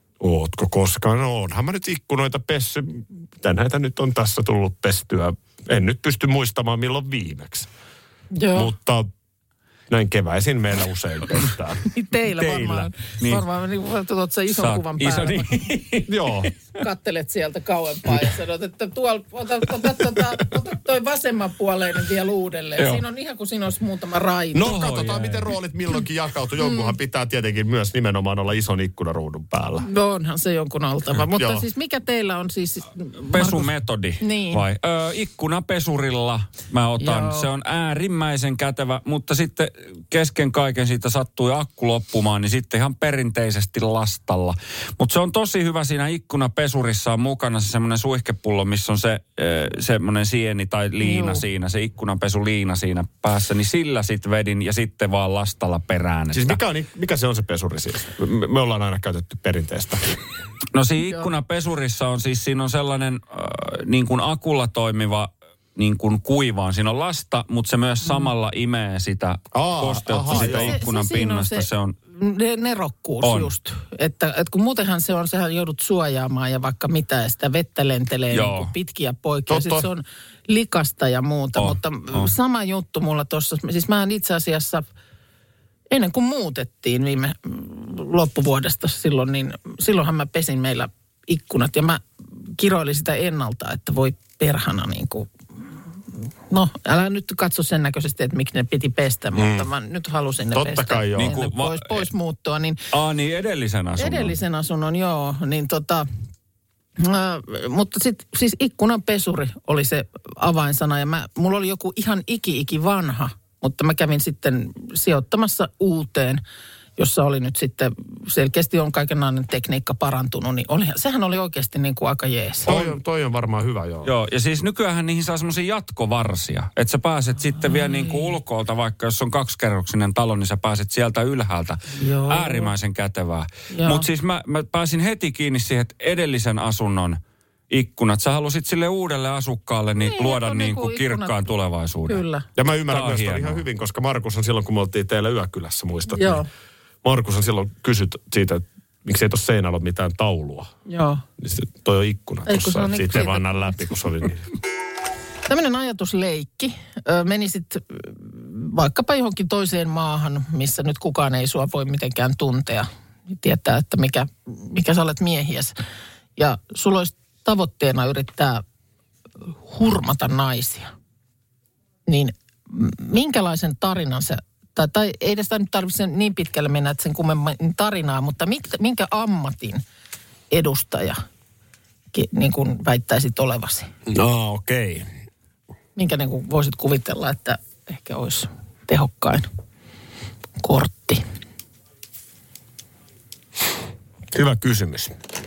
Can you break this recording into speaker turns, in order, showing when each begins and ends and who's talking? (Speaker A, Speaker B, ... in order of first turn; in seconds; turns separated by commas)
Speaker A: 0.2-7.7, Speaker B: 8.3-8.7, Speaker A: 8.5-9.1, Speaker A: 9.9-12.9, Speaker B: 11.9-15.7, Speaker C: 13.2-13.5, Speaker C: 14.5-16.5, Speaker A: 16.1-16.5, Speaker B: 16.8-24.7, Speaker C: 22.8-23.0, Speaker A: 24.5-29.9, Speaker C: 24.6-25.6, Speaker B: 26.6-26.9, Speaker B: 29.8-34.6, Speaker A: 31.3-31.7, Speaker C: 33.3-56.6, Speaker B: 37.0-37.5, Speaker B: 51.0-51.5, Speaker A: 56.3-60.0, Speaker C: 60.7-72.0, Speaker A: 69.5-70.8, Speaker B: 70.3-84.8, Speaker C: 73.2-73.5, Speaker C: 78.3-78.7, Speaker A: 79.5-79.9, Speaker C: 81.6-82.3, Speaker B: 85.9-95.3, Speaker B: 96.5-102.8, Speaker A: 99.3-99.7, Speaker A: 100.5-101.4, Speaker C: 101.2-102.1, Speaker C: 102.9-104.4, Speaker B: 104.0-106.1, Speaker B: 107.0-116.4, Speaker B: 117.0-122.7, Speaker A: 122.7-124.1, Speaker C: 124.0-142.2, Speaker B: 127.7-128.3, Speaker B: 131.9-132.7, Speaker B: 133.7-134.1, Speaker B: 140.0-141.5, Speaker B: 142.1-142.5, Speaker A: 142.6-146.4, Speaker C: 142.9-143.6, Speaker B: 146.1-146.5, Speaker A: 147.0-150.7, Speaker B: 150.9-151.2, Speaker A: 151.4-154.4, Speaker B: 152.5-153.8, Speaker B: 155.5-165.8, Speaker B: 166.4-168.6, Speaker B: 169.7-170.9, Speaker B: 172.1-179.8, Speaker B: 180.5-181.2, Speaker B: 182.1-183.9, Speaker A: 184.1-185.1, Speaker B: 186.0-189.5, Speaker B: 190.6-191.2, Speaker A: 194.3-195.2